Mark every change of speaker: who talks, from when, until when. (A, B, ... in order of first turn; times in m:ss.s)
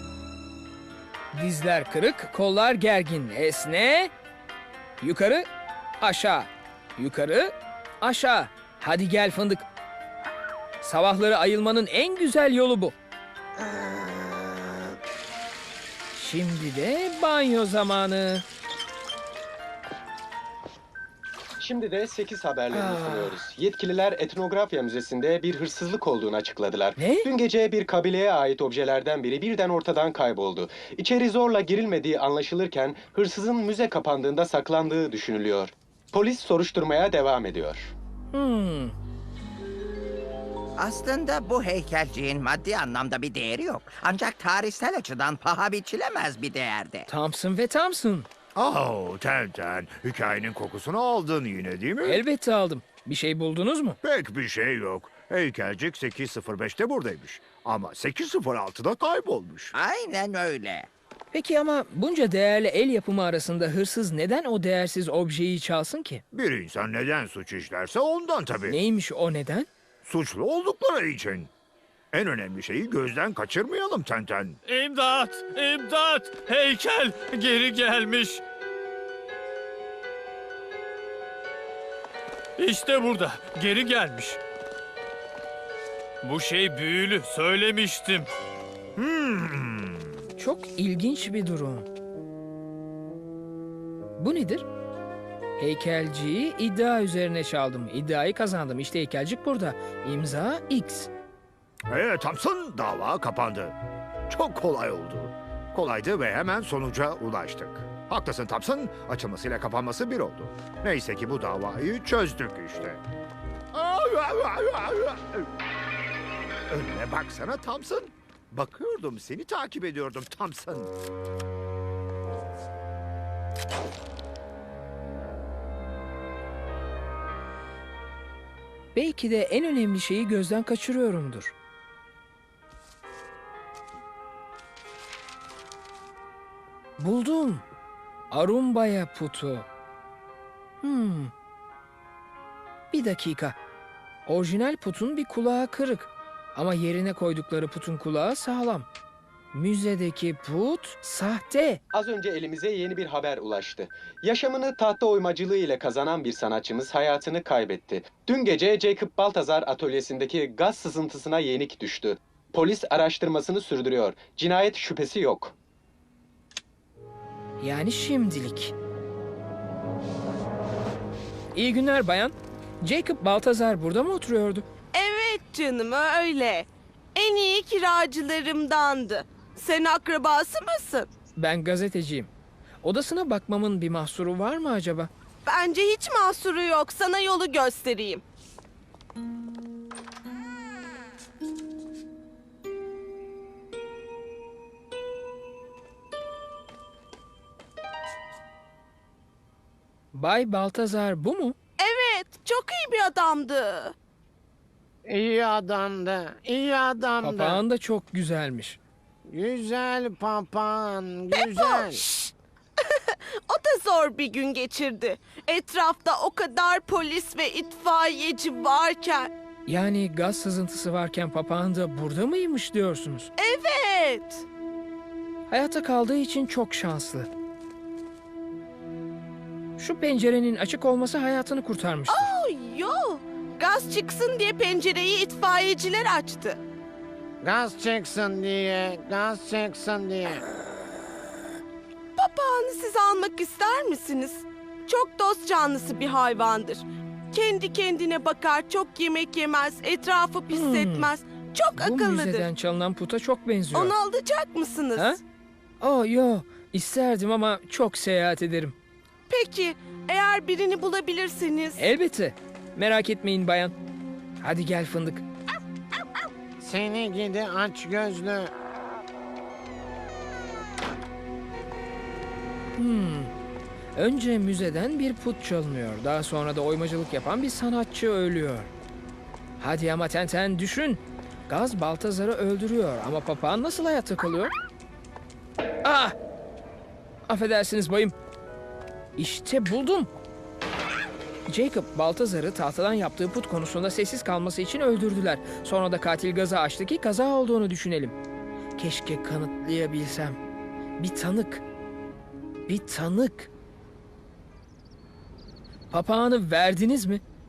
0:01.3-0:04.1 A
0:05.0-0:05.5 A
0:06.0-0:09.7 A
0:10.8-0:12.9 A
0:16.1-0:18.4 A
0:21.6-0:37.9 B
0:22.7-0:23.4 A
0:27.0-0:27.3 A
0:38.3-0:38.9 A
0:40.8-0:47.1 C
0:47.1-0:48.3 A
0:48.5-0:52.2 D
0:52.0-0:54.0 A
0:54.0-0:59.7 D
0:59.7-1:00.9 C
1:01.3-1:06.2 A
1:06.3-1:08.8 D
1:08.7-1:09.7 A
1:10.0-1:11.5 D
1:12.1-1:14.6 D
1:14.6-1:18.4 E
1:22.6-1:24.4 E
1:26.2-1:28.3 E
1:29.0-1:30.1 D
1:30.4-1:31.9 A
1:34.2-1:34.7 A
1:35.6-1:41.1 A
1:41.9-1:43.8 D
1:44.3-1:53.0 D
1:53.7-1:55.5 D
1:56.7-2:00.9 D
2:08.9-2:11.5 A
2:17.0-2:17.6 A
2:18.3-2:19.7 A
2:20.8-2:21.3 A
2:22.9-2:23.6 A
2:24.2-2:28.9 A
2:29.5-2:31.8 A
2:31.9-2:45.5 B
2:47.6-2:48.7 A
2:51.5-2:54.7 A
2:54.9-3:01.1 F
3:01.4-3:02.3 A
3:02.8-3:05.1 A
3:05.4-3:08.2 F
3:20.1-3:21.6 A
3:21.8-3:23.9 F
3:25.1-3:27.6 G
3:27.2-3:28.8 A
3:29.3-3:32.0 G
3:31.3-3:39.3 F
3:39.7-3:43.3 A
3:43.4-3:44.4 F
3:45.5-3:47.3 A
3:49.8-3:52.3 A
3:52.1-3:56.6 F
3:57.4-4:00.4 G
4:02.2-4:12.5 F
4:10.5-4:11.1 A
4:11.7-4:13.9 A
4:13.7-4:15.2 F
4:14.9-4:15.2 A
4:15.8-4:18.8 A
4:19.3-4:21.8 F
4:21.8-4:23.7 A
4:24.4-4:25.2 A
4:26.6-4:28.5 G
4:32.8-4:33.3 A
4:33.9-4:38.7 A
4:39.6-4:44.5 A
4:45.8-4:46.2 A
4:47.3-4:48.1 A
4:49.2-4:50.1 A
4:51.5-4:58.2 A
4:58.8-5:00.4 A
5:01.0-5:01.6 A
5:02.7-5:03.5 A
5:05.9-5:07.2 A